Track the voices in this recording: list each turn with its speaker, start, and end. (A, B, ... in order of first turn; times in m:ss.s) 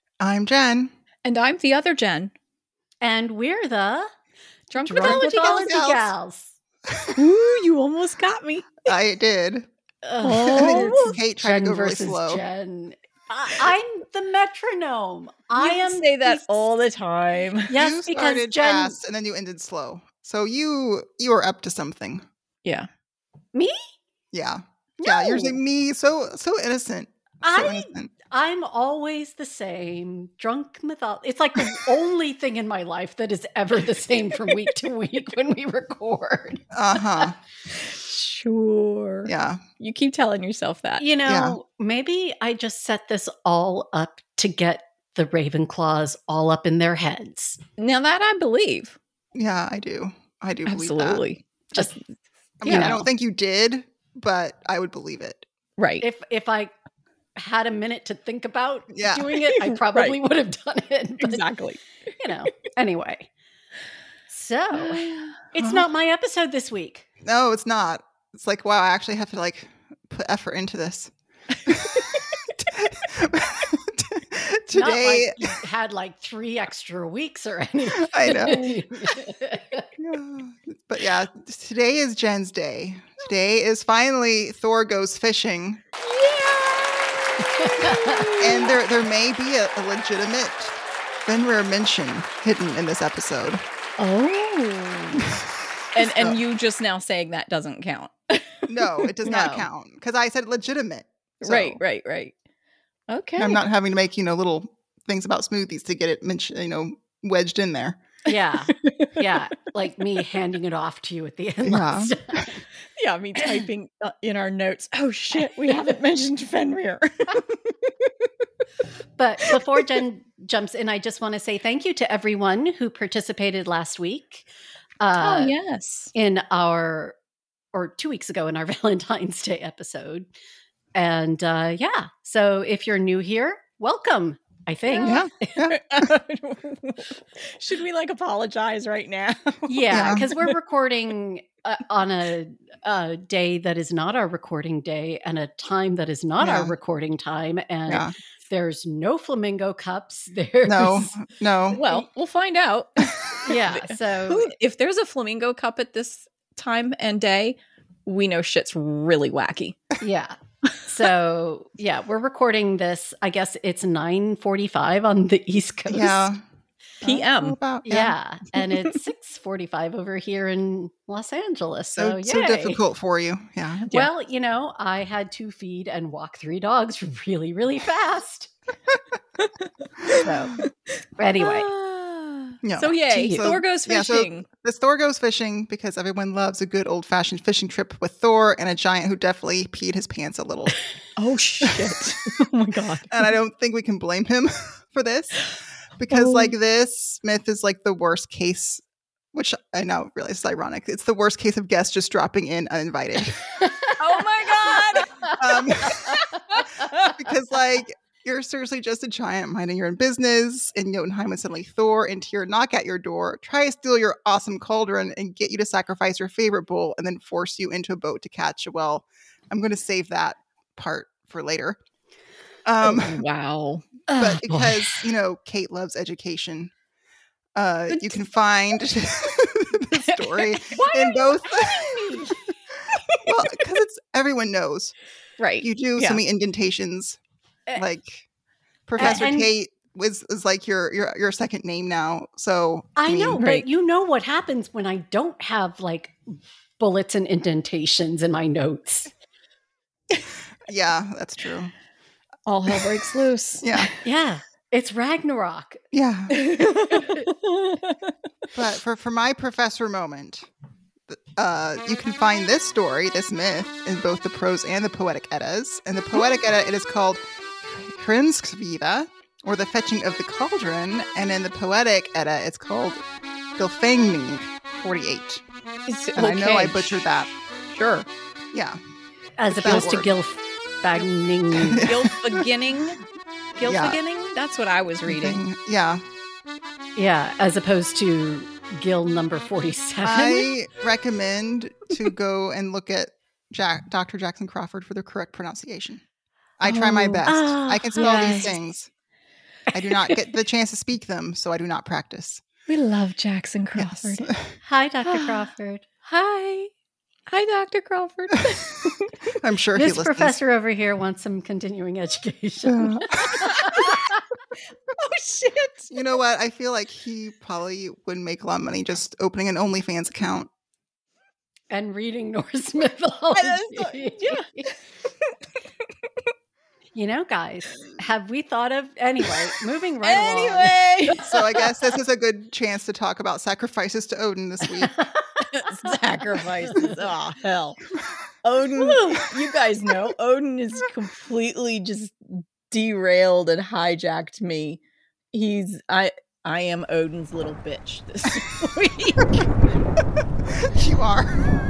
0:00.2-0:00.9 A
0:01.2-0:02.3 B
0:03.0-0:04.1 C
0:04.7-0:05.7 B
0:04.8-0:06.5 C
0:05.0-0:06.1 A
0:06.9-0:07.2 A
0:07.1-0:08.8 B
0:08.8-0:09.7 A
0:10.0-0:16.6 C
0:10.2-0:11.2 B
0:10.5-0:12.4 A
0:15.5-0:17.7 B
0:17.7-0:19.0 C
0:17.7-0:22.2 A
0:24.3-0:28.1 A
0:25.0-0:25.6 C
0:27.4-0:36.6 C
0:36.7-0:37.4 A
0:37.7-0:41.0 B
0:39.2-0:39.6 A
0:41.0-0:47.6 C
0:41.2-0:41.6 A
0:47.8-0:49.0 B
0:49.3-0:51.2 A
0:50.7-0:52.0 B
0:52.6-0:55.4 A
0:52.6-0:53.0 B
0:52.7-0:53.0 C
0:55.8-0:56.0 B
0:56.0-0:56.7 C
0:57.4-1:01.4 C
0:58.9-0:59.3 A
0:59.6-1:00.2 B
1:01.2-1:01.8 B
1:02.2-1:03.3 C
1:04.3-1:07.1 C
1:04.7-1:05.3 B
1:05.6-1:05.9 A
1:07.2-1:11.1 A
1:11.6-1:15.5 A
1:11.7-1:12.2 B
1:14.7-1:19.9 C
1:17.9-1:18.6 A
1:20.0-1:25.8 A
1:26.0-1:28.7 B
1:27.4-1:28.2 C
1:28.4-1:33.6 A
1:34.0-1:35.3 B
1:35.9-1:39.4 B
1:36.0-1:36.4 A
1:38.6-1:41.8 A
1:39.2-1:39.6 C
1:41.4-1:42.3 B
1:43.1-1:43.6 B
1:43.4-1:48.0 A
1:48.3-1:52.6 C
1:48.7-1:49.2 B
1:51.6-1:52.5 A
1:53.0-1:58.1 B
1:59.2-2:04.5 C
2:05.0-2:05.5 C
2:05.2-2:06.1 B
2:06.1-2:07.2 C
2:07.7-2:10.3 C
2:10.9-2:15.5 C
2:14.9-2:15.2 B
2:15.0-2:15.8 A
2:15.7-2:20.5 B
2:19.7-2:31.1 C
2:19.9-2:20.3 A
2:26.4-2:26.7 A
2:30.6-2:31.8 A
2:31.7-2:39.8 B
2:33.4-2:34.4 C
2:40.0-2:46.3 C
2:45.9-2:46.4 A
2:47.0-2:48.1 A
2:47.0-2:47.6 B
2:47.8-2:52.8 C
2:52.0-2:53.9 A
2:53.9-2:58.5 C
2:59.6-3:00.7 B
3:00.2-3:00.6 C
3:01.2-3:01.7 C
3:01.4-3:04.4 B
3:02.6-3:10.8 A
3:03.1-3:03.5 C
3:11.2-3:13.3 B
3:11.6-3:11.9 A
3:13.1-3:18.8 A
3:16.1-3:16.5 B
3:19.3-3:23.4 A
3:23.6-3:24.0 C
3:24.0-3:25.3 B
3:24.6-3:26.4 C
3:25.4-3:26.2 A
3:26.2-3:27.1 B
3:26.9-3:41.8 A
3:42.6-3:43.2 A
3:42.8-3:43.8 B
3:44.1-3:45.0 C
3:44.2-3:46.7 A
3:47.6-3:52.1 A
3:50.7-3:51.1 C
3:51.1-3:51.9 B
3:51.9-3:52.4 C
3:52.9-3:53.2 B
3:53.2-3:54.9 A
3:55.4-3:56.2 B
3:55.6-3:57.2 A
3:57.8-3:58.2 A
3:58.9-4:03.4 A
3:59.0-3:59.5 C
4:03.0-4:09.1 C
4:03.4-4:03.6 B
4:10.6-4:11.7 A
4:12.4-4:13.9 B
4:13.6-4:13.9 A
4:14.0-4:15.8 C
4:15.9-4:16.4 A
4:16.3-4:18.0 B
4:17.0-4:17.2 C
4:18.5-4:20.5 A
4:21.1-4:33.0 A
4:33.6-4:35.4 A
4:35.9-4:37.1 B
4:36.1-4:37.3 A
4:37.7-4:38.1 B
4:38.5-4:38.8 A
4:39.4-4:41.9 C
4:39.5-4:40.1 A
4:41.5-4:42.4 A
4:41.8-4:43.0 B
4:43.6-4:45.4 B
4:43.6-4:44.0 A
4:45.1-4:46.0 A
4:47.0-4:50.5 C
4:50.0-4:56.0 A
4:56.6-4:58.9 A
4:56.6-4:57.3 B
4:57.2-4:58.5 C
4:58.0-4:58.5 B
4:59.7-5:02.4 A
5:02.7-5:04.3 B
5:03.7-5:04.5 A
5:04.6-5:05.8 C
5:05.0-5:05.4 B
5:06.0-5:06.7 B
5:07.3-5:09.3 B
5:09.4-5:10.4 A
5:09.8-5:14.2 C
5:12.6-5:13.5 A
5:13.4-5:14.0 B
5:14.9-5:15.9 B
5:15.9-5:20.5 A
5:21.7-5:24.7 C
5:23.3-5:24.5 B
5:26.9-5:30.7 C
5:30.0-5:31.3 B
5:31.2-5:34.9 A
5:35.0-5:35.9 C
5:35.5-5:37.8 B
5:36.7-5:37.0 C
5:38.4-5:44.8 B
5:45.3-5:49.5 B
5:50.4-5:51.5 A